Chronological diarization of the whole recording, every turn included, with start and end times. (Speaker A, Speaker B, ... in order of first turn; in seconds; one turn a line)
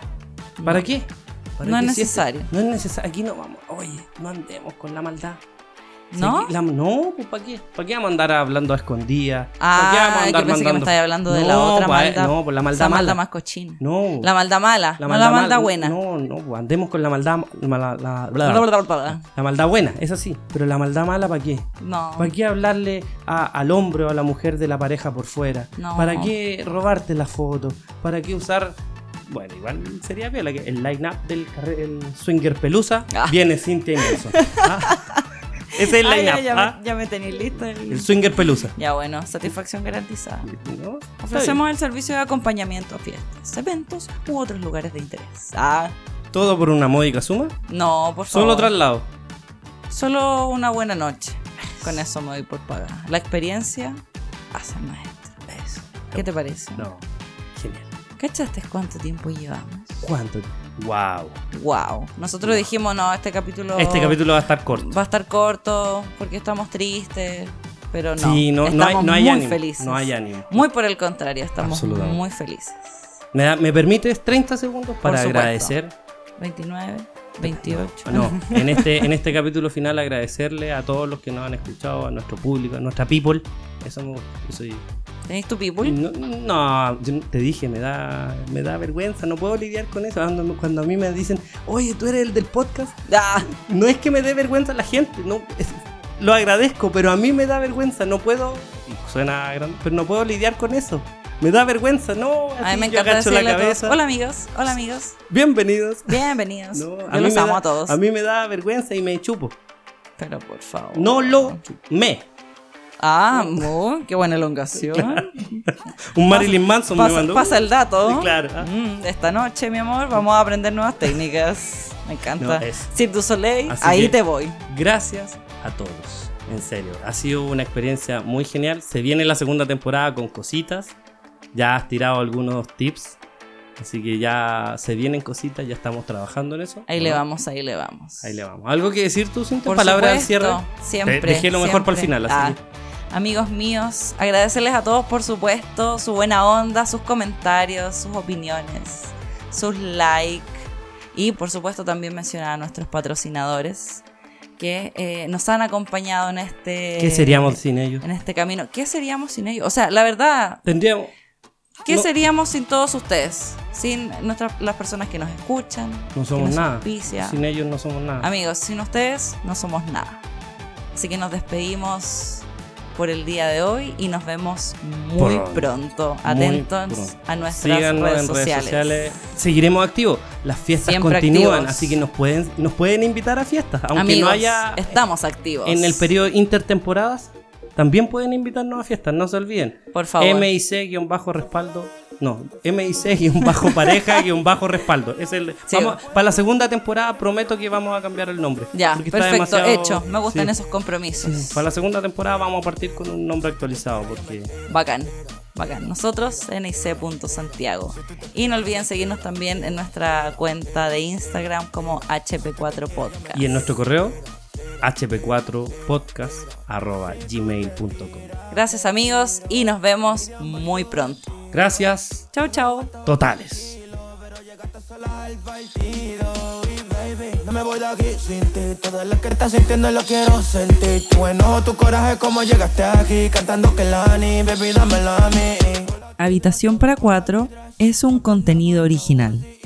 Speaker A: 0.6-0.9
Speaker B: 0.6-5.4
Speaker A: 1.6-2.5
Speaker A: 6.1-6.5
Speaker B: 6.2-13.2
Speaker A: 9.6-15.9
Speaker B: 13.8-14.3
Speaker B: 15.0-35.1
Speaker A: 18.4-19.2
Speaker A: 21.8-22.3
Speaker A: 25.8-26.3
Speaker A: 33.1-33.4
Speaker A: 34.0-40.5
Speaker B: 35.7-36.8
Speaker B: 37.9-38.7
Speaker B: 40.4-41.6
Speaker A: 41.2-46.0
Speaker B: 46.3-47.6
Speaker A: 47.7-48.7
Speaker B: 48.3-49.1
Speaker A: 49.9-55.4
Speaker B: 55.5-57.0
Speaker A: 56.1-56.9
Speaker B: 57.5-57.9
Speaker A: 58.2-60.0
Speaker B: 60.0-61.4
Speaker A: 61.5-73.1
Speaker B: 63.8-64.9
Speaker B: 68.2-70.7
Speaker B: 71.6-72.2
Speaker B: 73.3-75.9
Speaker A: 75.0-75.8
Speaker A: 76.4-79.1
Speaker B: 77.4-84.8
Speaker A: 85.3-86.0
Speaker B: 85.8-104.0
Speaker A: 93.1-93.5
Speaker A: 102.6-105.2
Speaker B: 105.3-106.2
Speaker A: 106.1-108.0
Speaker B: 106.7-109.6
Speaker A: 110.2-111.6
Speaker B: 110.9-112.3
Speaker A: 113.0-115.7
Speaker B: 113.3-113.7
Speaker B: 114.8-118.7
Speaker A: 116.3-124.6
Speaker B: 122.4-122.9
Speaker B: 123.7-131.0
Speaker B: 131.5-133.2
Speaker B: 133.8-137.2
Speaker A: 136.9-138.4
Speaker B: 138.2-142.6
Speaker A: 139.7-142.6
Speaker A: 143.1-154.0
Speaker A: 154.6-160.6
Speaker B: 157.0-158.0
Speaker B: 160.7-161.1
Speaker A: 161.8-167.4
Speaker B: 166.2-168.3
Speaker A: 168.2-170.2
Speaker A: 170.9-179.0
Speaker B: 175.2-185.0
Speaker A: 180.8-182.0
Speaker A: 183.9-186.1
Speaker B: 185.7-200.5
Speaker A: 189.9-190.5
Speaker A: 193.4-194.2
Speaker A: 195.7-196.0
Speaker A: 198.7-201.7
Speaker B: 201.2-204.5
Speaker A: 204.7-213.7
Speaker B: 213.3-214.2
Speaker B: 214.8-218.3
Speaker A: 218.5-221.4
Speaker B: 221.5-222.3
Speaker A: 222.3-222.9
Speaker B: 223.1-223.8
Speaker C: 224.3-236.0
Speaker A: 236.2-239.5